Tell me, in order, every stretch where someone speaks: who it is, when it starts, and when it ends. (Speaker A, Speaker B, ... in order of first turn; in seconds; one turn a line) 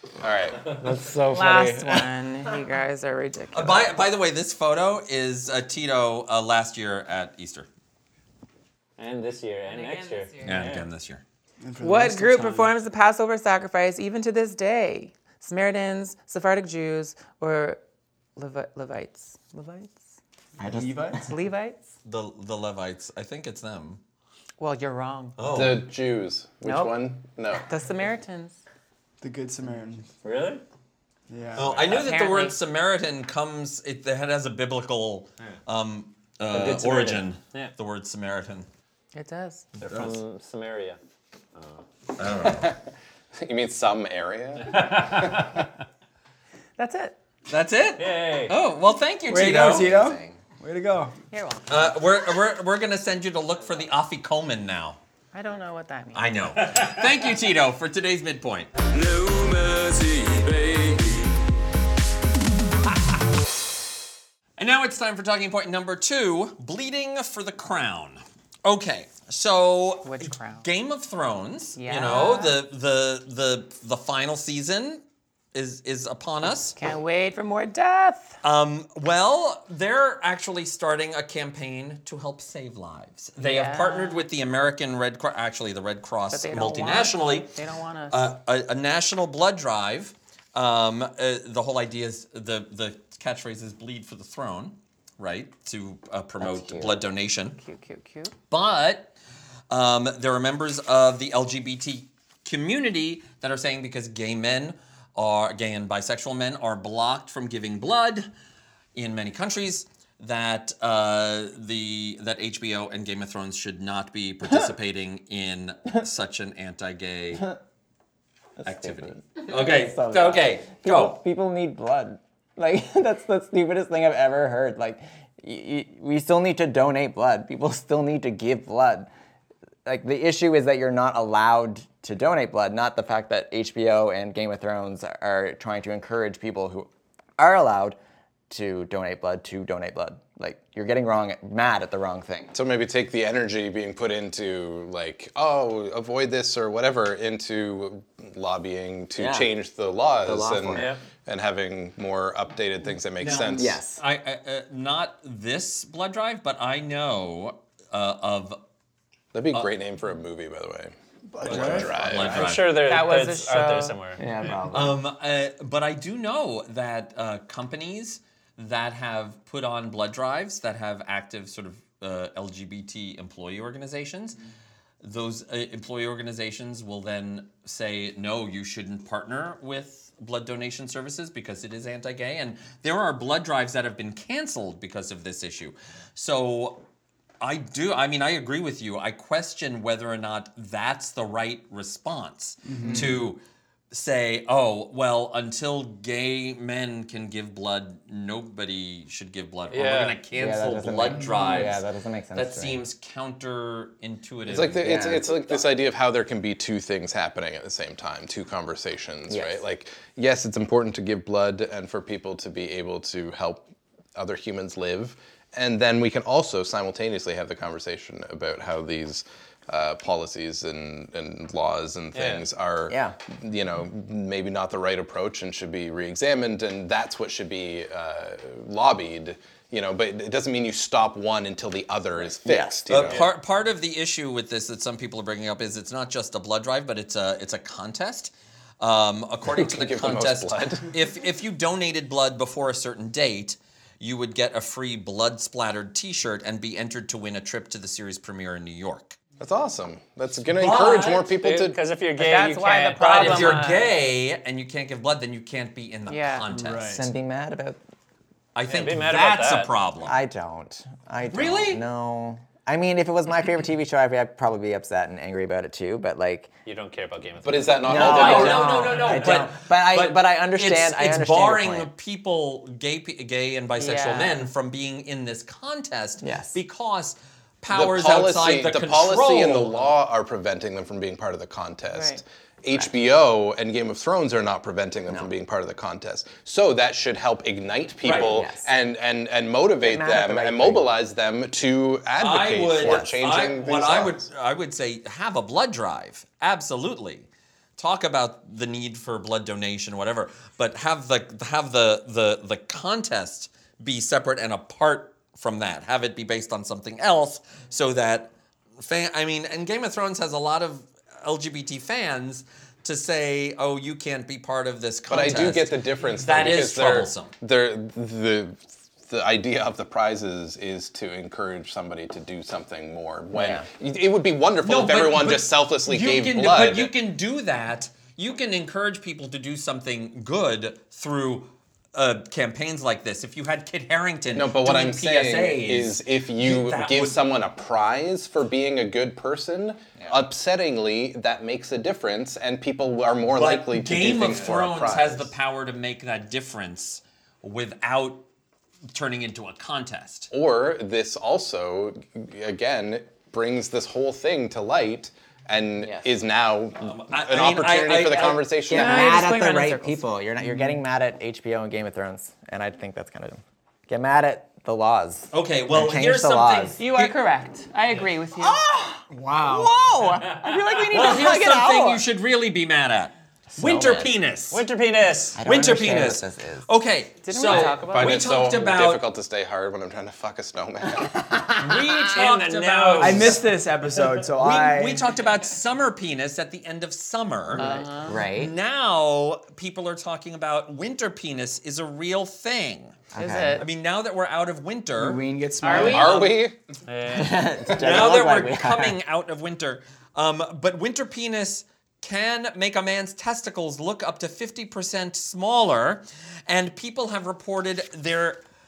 Speaker A: 0.2-0.9
Speaker B: 0.8-2.0
Speaker C: 1.3-4.0
Speaker D: 3.5-7.7
Speaker E: 9.0-10.8
Speaker C: 9.7-10.8
Speaker D: 10.4-11.2
Speaker F: 11.6-12.7
Speaker C: 11.8-17.8
Speaker C: 18.4-20.1
Speaker B: 20.6-21.3
Speaker F: 20.7-21.3
Speaker C: 21.2-21.9
Speaker D: 22.1-24.0
Speaker C: 24.6-25.5
Speaker D: 25.4-25.8
Speaker A: 25.5-27.7
Speaker C: 26.6-27.0
Speaker C: 27.6-28.6
Speaker F: 29.2-30.1
Speaker E: 30.2-30.6
Speaker F: 31.3-31.9
Speaker D: 31.6-38.7
Speaker C: 31.8-32.6
Speaker E: 36.5-37.7
Speaker C: 39.1-39.7
Speaker D: 39.8-40.2
Speaker E: 39.9-41.0
Speaker E: 41.6-41.8
Speaker D: 42.2-42.7
Speaker A: 42.4-42.8
Speaker A: 43.4-45.5
Speaker E: 44.6-45.7
Speaker C: 46.8-47.2
Speaker D: 47.5-49.9
Speaker E: 48.0-48.5
Speaker F: 49.3-51.1
Speaker B: 49.5-50.4
Speaker C: 51.3-52.0
Speaker D: 51.7-55.0
Speaker C: 55.3-56.3
Speaker D: 56.1-58.7
Speaker E: 59.0-61.2
Speaker D: 64.6-75.0
Speaker C: 70.0-70.7
Speaker C: 71.8-72.6
Speaker D: 75.5-76.8
Speaker C: 76.8-78.4
Speaker D: 78.4-87.6
Speaker C: 83.4-84.2
Speaker C: 86.3-88.3
Speaker D: 88.1-97.6
Speaker B: 96.4-96.9
Speaker C: 97.6-98.3
Speaker D: 98.5-99.1
Speaker D: 99.7-108.3
Speaker D: 109.0-117.5
Speaker B: 118.6-129.1
Speaker D: 118.7-121.2
Speaker B: 129.8-138.0
Speaker B: 138.5-142.5
Speaker A: 142.5-153.8
Speaker B: 149.2-149.5
Speaker B: 150.2-150.9
Speaker E: 150.8-151.0
Speaker D: 153.2-158.6
Speaker B: 153.6-154.0
Speaker A: 159.3-162.5
Speaker F: 161.3-162.3
Speaker D: 161.4-162.8
Speaker E: 162.3-164.2
Speaker C: 162.8-164.0
Speaker B: 164.2-165.0
Speaker D: 164.7-174.4
Speaker D: 175.0-186.8
Speaker D: 187.4-205.0
Speaker F: 192.7-193.3
Speaker E: 199.7-200.2
Speaker B: 200.3-202.8
Speaker F: 201.1-201.7
Speaker A: 204.5-233.3
Speaker B: 204.8-205.6
Speaker B: 209.3-209.6
Speaker E: 222.2-222.4
Speaker B: 222.9-223.2
Speaker B: 232.2-233.2
Speaker D: 232.9-249.2
Speaker A: 239.5-240.9
Speaker A: 249.4-251.8
Speaker D: 250.6-251.3
Speaker E: 251.4-253.6
Speaker C: 252.2-253.9
Speaker D: 253.0-257.1
Speaker C: 256.1-256.5
Speaker F: 256.5-257.1
Speaker B: 256.9-257.8
Speaker D: 258.6-260.2
Speaker E: 258.7-259.7
Speaker B: 260.0-266.5
Speaker D: 261.3-261.8
Speaker E: 266.7-268.5
Speaker A: 267.4-269.0
Speaker B: 267.8-271.9
Speaker D: 267.9-279.9
Speaker C: 273.8-274.4
Speaker B: 276.2-276.6
Speaker A: 277.7-294.2
Speaker C: 281.9-282.2
Speaker D: 288.0-288.3
Speaker B: 288.1-288.7
Speaker B: 289.8-290.9
Speaker D: 292.2-317.3
Speaker B: 292.7-293.3
Speaker A: 315.1-326.9
Speaker B: 323.3-323.6
Speaker D: 324.6-337.2
Speaker A: 334.3-345.3
Speaker D: 343.4-348.2
Speaker D: 348.9-350.3
Speaker A: 350.3-359.2
Speaker B: 355.8-356.1
Speaker D: 356.8-358.5
Speaker C: 358.7-360.1
Speaker B: 358.7-366.8
Speaker F: 360.4-360.7
Speaker D: 365.3-367.1
Speaker C: 366.8-368.6
Speaker B: 368.4-372.1
Speaker F: 369.1-369.7
Speaker D: 370.9-374.6
Speaker B: 373.5-374.1
Speaker E: 374.5-375.4
Speaker B: 375.4-376.7
Speaker D: 375.4-379.0
Speaker C: 377.2-378.4
Speaker A: 377.5-381.3
Speaker B: 381.0-382.1
Speaker D: 381.6-383.4
Speaker E: 382.1-384.2
Speaker F: 383.0-385.1
Speaker D: 384.4-387.7
Speaker B: 387.6-388.5
Speaker C: 387.6-388.3
Speaker D: 388.2-393.0
Speaker B: 393.1-393.6
Speaker C: 393.1-393.6
Speaker D: 393.6-395.2
Speaker F: 395.0-396.2
Speaker C: 395.6-396.4
Speaker A: 395.7-396.6
Speaker E: 396.9-397.7
Speaker B: 397.1-399.0
Speaker D: 397.8-408.4